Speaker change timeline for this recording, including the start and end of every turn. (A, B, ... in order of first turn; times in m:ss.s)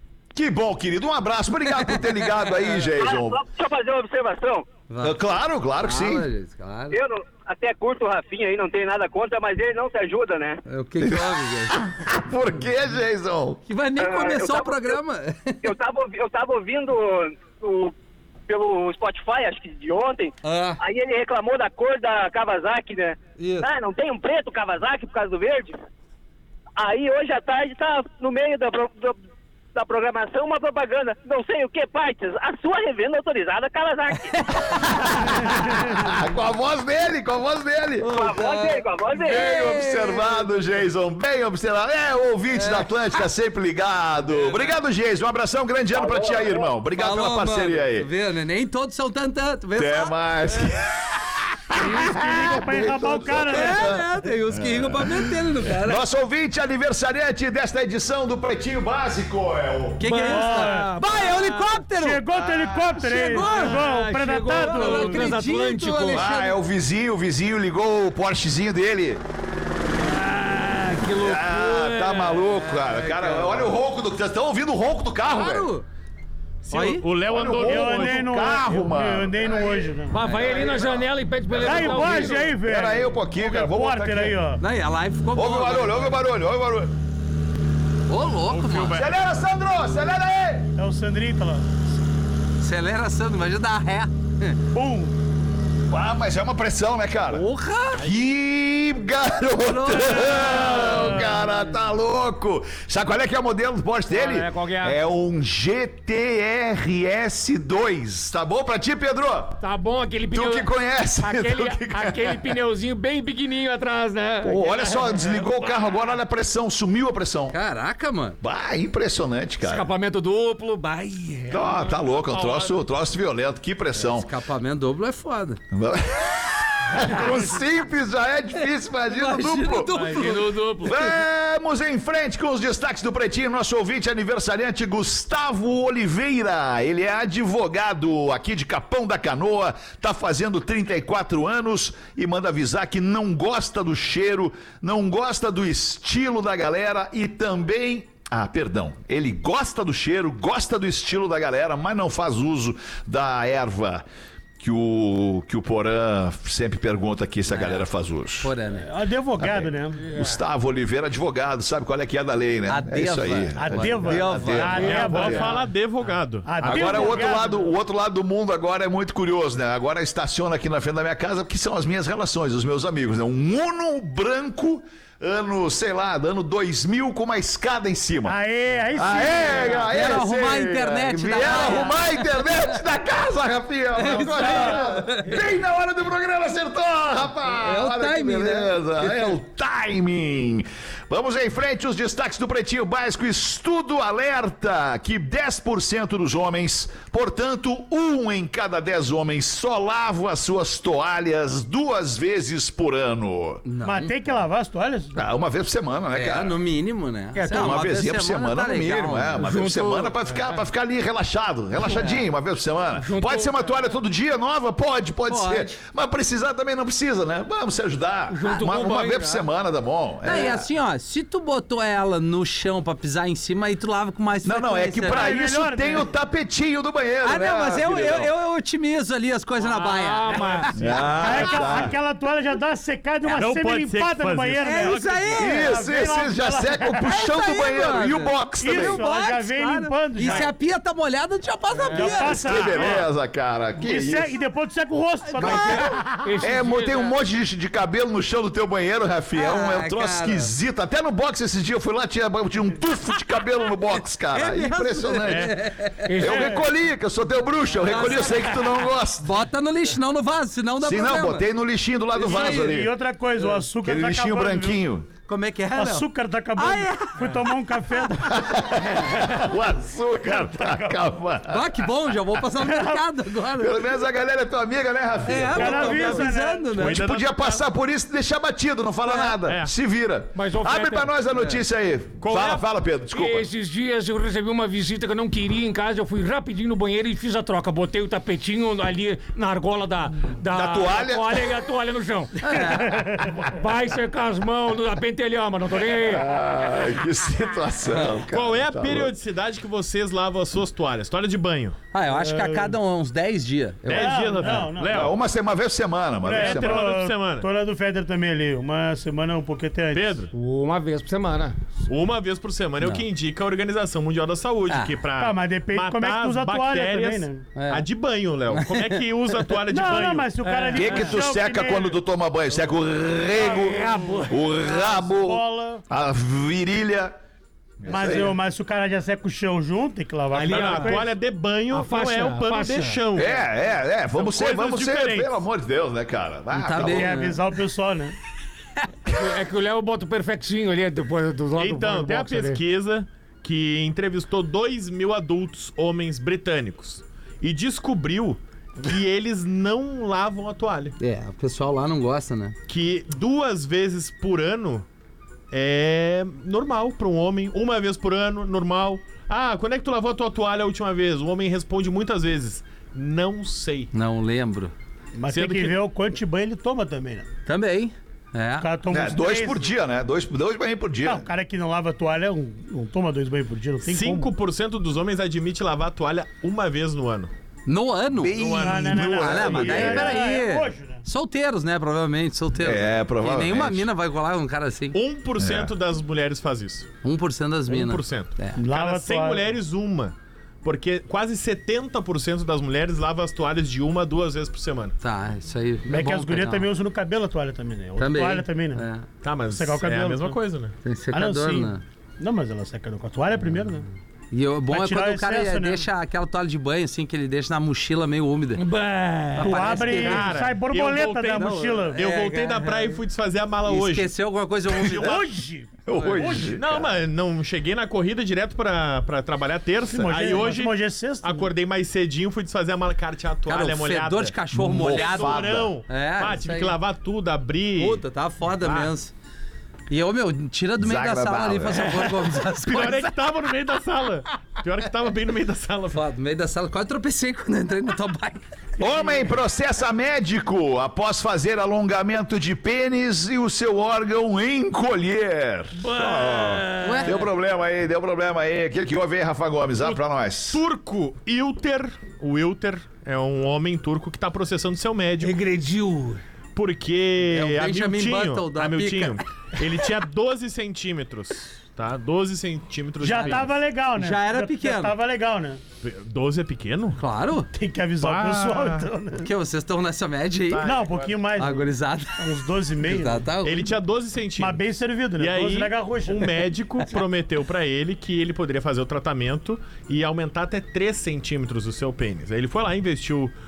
0:00.3-0:03.4 A
0:02.9-0:04.7 B
0:04.9-0:05.2 C
0:05.0-0:06.3 A
0:05.8-0:07.0 C
0:06.9-0:10.6 B
0:10.6-0:11.8 C
0:11.0-0:13.6 A
0:13.7-0:15.7 C
0:14.0-0:15.0 B
0:15.6-0:17.9 B
0:18.5-0:25.8 B
0:20.4-0:20.8 C
0:23.4-0:23.7 C
0:26.8-0:29.2 B
0:29.7-0:34.4 B
0:34.3-0:35.8 C
0:35.0-0:38.2 A
0:38.0-0:40.5 C
0:38.1-0:39.5 B
0:39.1-0:48.1 A
0:42.5-0:43.2 C
0:44.2-0:44.6 C
0:45.9-0:46.7 B
0:46.9-0:50.1 C
0:49.7-1:00.1 A
0:51.7-0:53.9 D
0:53.3-0:56.0 C
1:00.0-1:02.2 C
1:00.1-1:01.0 D
1:00.1-1:01.8 E
1:01.9-1:05.3 D
1:02.4-1:02.7 A
1:03.0-1:06.5 C
1:03.1-1:06.3 E
1:06.1-1:09.2 A
1:10.0-1:12.6 E
1:11.1-1:15.7 A
1:13.0-1:13.7 C
1:15.3-1:15.8 C
1:16.7-1:17.0 C
1:16.7-1:18.2 F
1:17.3-1:19.9 A
1:17.6-1:20.2 D
1:20.1-1:22.5 E
1:20.2-1:20.8 C
1:20.4-1:24.4 A
1:21.6-1:24.6 D
1:24.6-1:26.2 C
1:25.3-1:26.9 A
1:28.1-1:29.0 C
1:28.4-1:29.1 F
1:28.9-1:30.7 A
1:30.8-1:31.9 D
1:32.6-1:34.6 C
1:34.7-1:35.2 D
1:35.9-1:37.4 A
1:37.3-1:38.0 C
1:38.0-1:49.6 A
1:39.7-1:41.0 C
1:40.4-1:41.3 E
1:44.1-1:45.0 E
1:49.6-1:55.4 E
1:50.3-1:52.6 A
1:54.4-1:57.6 A
1:57.5-1:58.4 C
1:58.4-1:59.9 A
1:59.6-2:01.9 E
2:01.5-2:04.3 A
2:02.2-2:02.8 F
2:04.0-2:05.6 C
2:05.7-2:34.0 A
2:08.6-2:11.1 C
2:10.0-2:11.0 E
2:34.6-2:38.5 A
2:37.5-2:37.9 C
2:38.4-2:38.9 C
2:38.8-2:40.1 D
2:39.4-2:45.5 A
2:42.7-2:45.4 C
2:43.6-2:45.6 D
2:44.8-2:47.2 F
2:45.0-2:45.4 E
2:46.4-2:47.7 D
2:46.6-2:58.4 A
2:58.2-2:59.9 D
2:58.9-3:23.6 A
2:59.8-3:02.4 C
3:03.9-3:05.4 C
3:04.3-3:05.0 D
3:07.6-3:09.2 C
3:23.6-3:24.1 C
3:23.8-3:25.2 D
3:25.1-3:26.6 A
3:26.1-3:29.4 C
3:27.3-3:27.8 E
3:27.5-3:40.7 A
3:29.4-3:30.2 E
3:31.8-3:32.2 C
3:33.0-3:33.6 E
3:35.3-3:35.8 C
3:38.3-3:39.4 E
3:40.2-3:45.4 C
3:44.4-3:48.3 A
3:45.1-3:46.1 D
3:47.2-3:51.6 C
3:49.6-3:51.4 E
3:50.3-3:50.6 F
3:50.8-3:51.9 A
3:51.2-3:57.0 D
3:53.3-3:55.4 F
3:54.6-3:55.8 C
3:55.4-3:59.0 A
3:57.0-4:03.0 C
3:58.6-4:00.5 D
4:01.9-4:03.0 D
4:02.0-4:04.3 A
4:03.8-4:06.2 D
4:05.3-4:06.8 C
4:06.2-4:07.1 E
4:06.4-4:15.6 A
4:09.3-4:10.5 C
4:14.3-4:16.4 C
4:15.3-4:15.6 F
4:16.0-4:16.7 E
4:16.2-4:19.4 A
4:17.8-4:21.4 C
4:20.8-4:22.9 A
4:22.1-4:24.8 D
4:23.8-4:25.1 A
4:25.3-4:28.1 C
4:25.7-4:29.2 D
4:28.2-4:32.4 A
4:30.3-4:31.0 D
4:31.5-4:33.8 C
4:32.6-4:33.0 D
4:33.6-4:43.5 A
4:35.2-4:37.0 C
4:35.5-4:36.7 D
4:36.7-4:37.6 F
4:39.4-4:39.7 F
4:40.3-4:41.1 E
4:42.2-4:42.6 F
4:43.1-4:56.3 E
4:50.5-4:51.6 A
4:52.4-4:52.9 C
4:56.0-4:59.1 A
4:57.9-4:58.2 C
4:58.3-5:01.8 F
5:01.9-5:04.6 C
5:02.1-5:02.8 D
5:03.8-5:05.1 F
5:03.9-5:05.1 D
5:04.9-5:06.9 A
5:06.2-5:10.3 D
5:06.3-5:07.5 F
5:09.9-5:10.3 F
5:10.3-5:11.6 E
5:11.9-5:20.3 F
5:14.7-5:14.9 C
5:15.2-5:17.4 D
5:17.5-5:17.8 C
5:18.5-5:19.0 C
5:19.7-5:22.0 D
5:20.4-5:21.2 E
5:20.7-5:27.2 A
5:23.4-5:24.5 E
5:24.5-5:25.8 D
5:27.8-5:28.3 A
5:27.9-5:31.0 D
5:30.4-5:33.4 F
5:30.4-5:31.0 E
5:31.7-5:33.0 E
5:33.1-5:37.2 A
5:34.1-5:35.4 F
5:36.5-5:37.4 C
5:36.8-5:38.2 D
5:39.1-5:42.6 E
5:41.6-5:51.0 F
5:51.0-5:52.5 C
5:52.7-5:54.8 F
5:55.5-6:03.9 F
6:03.9-6:04.7 C
6:05.1-6:07.3 D
6:05.3-6:05.8 F
6:07.4-6:08.7 C
6:08.6-6:09.7 D
6:08.9-6:11.3 A
6:11.0-6:14.3 D
6:13.8-6:17.3 F
6:17.7-6:18.4 C
6:18.2-6:20.2 A
6:18.3-6:19.8 F
6:18.6-6:21.0 D
6:19.0-6:25.0 C
6:22.6-6:23.9 A
6:24.9-6:26.9 F
6:25.4-6:25.7 A
6:27.0-6:28.6 C
6:27.7-6:34.9 F
6:28.6-6:29.4 D
6:35.0-6:36.7 C
6:35.9-6:38.8 D
6:38.0-6:39.0 C
6:39.2-6:40.7 F
6:39.5-6:40.4 D
6:40.8-6:41.8 C
6:41.1-6:43.9 D
6:44.3-6:48.6 C
6:44.7-6:45.9 D
6:48.6-6:49.7 E
6:49.3-6:50.3 C
6:49.4-6:52.0 D
6:49.9-6:54.1 F
6:51.4-6:53.0 C
6:53.6-6:55.2 C
6:54.7-6:55.3 F
6:55.0-6:56.6 D
6:55.8-6:56.9 A
6:56.5-7:08.0 F
6:59.9-7:01.5 D
7:03.5-7:06.8 C
7:04.5-7:05.7 A
7:07.8-7:09.1 C
7:08.6-7:08.9 F
7:09.9-7:13.1 C
7:10.8-7:12.1 A
7:12.6-7:16.0 F
7:15.9-7:18.4 C
7:18.8-7:30.6 A
7:25.8-7:27.2 E
7:26.8-7:27.2 C
7:29.8-7:35.4 F
7:35.2-7:36.2 E
7:36.6-7:43.6 F
7:37.3-7:39.2 C
7:43.0-7:45.6 D
7:43.2-7:44.9 C
7:45.8-7:47.0 F
7:47.0-7:47.5 C
7:47.5-7:49.3 D
7:48.0-7:48.9 F
7:49.2-7:50.7 C
7:50.5-7:51.2 F
7:50.6-7:53.3 D
7:51.4-7:53.7 C
7:53.4-7:54.6 F
7:54.4-7:56.4 D
7:55.2-8:03.3 F